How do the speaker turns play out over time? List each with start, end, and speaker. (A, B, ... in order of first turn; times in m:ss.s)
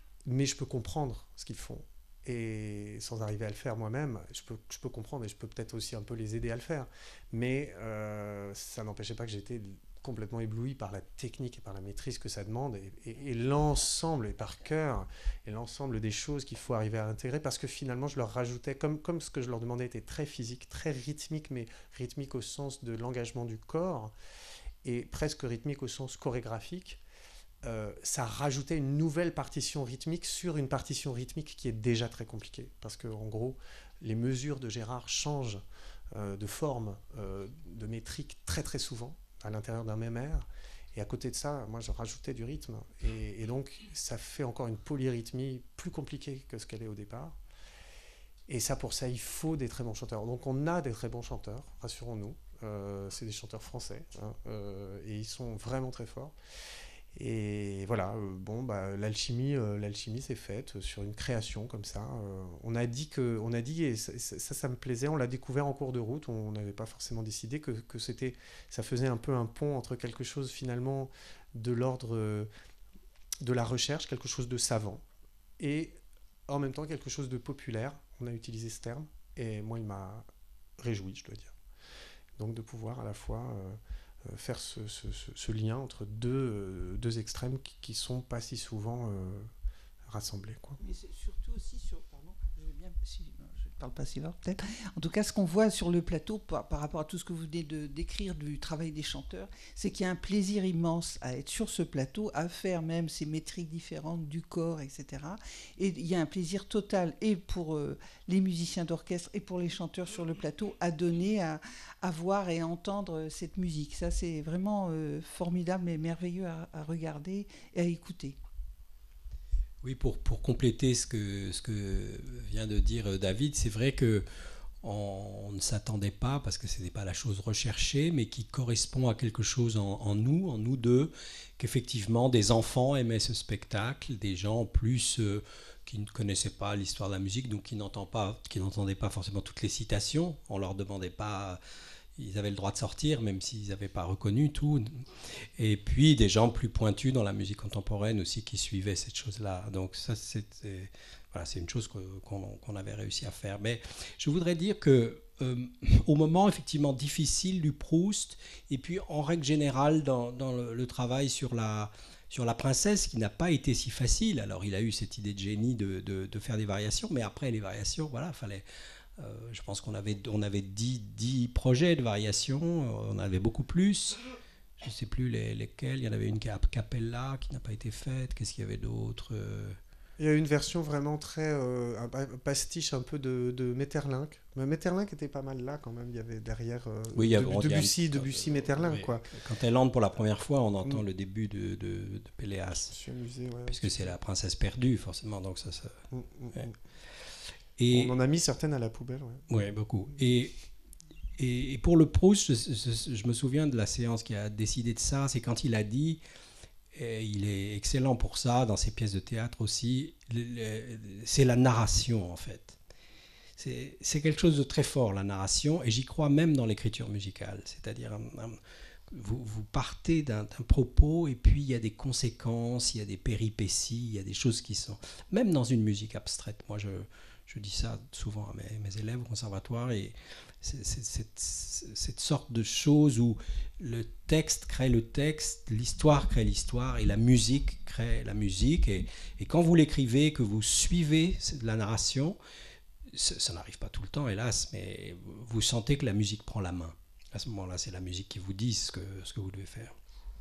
0:00.2-0:24.1 A
0:24.8-0:27.0 A
0:27.6-0:47.4 A
0:48.5-0:56.4 A
0:57.1-1:12.5 A
1:13.4-1:15.0 A
1:15.6-1:20.3 A
1:20.8-1:21.5 A
1:22.4-1:29.5 A
1:30.1-1:30.8 A
1:30.8-1:58.4 B
1:59.8-2:04.2 C
2:04.8-2:21.6 C
2:22.2-2:25.0 C
2:25.6-2:48.6 C
2:49.2-2:54.2 C
2:54.8-2:59.8 C
3:00.2-3:09.4 A
3:07.1-3:12.9 C
3:12.9-3:14.1 A
3:13.7-3:16.0 C
3:16.1-3:16.8 A
3:17.8-3:18.2 C
3:17.9-3:19.5 A
3:19.5-3:20.6 C
3:21.4-3:26.2 C
3:26.9-3:32.8 C
3:33.6-3:38.6 C
3:39.1-4:02.4 C
4:03.1-4:10.0 C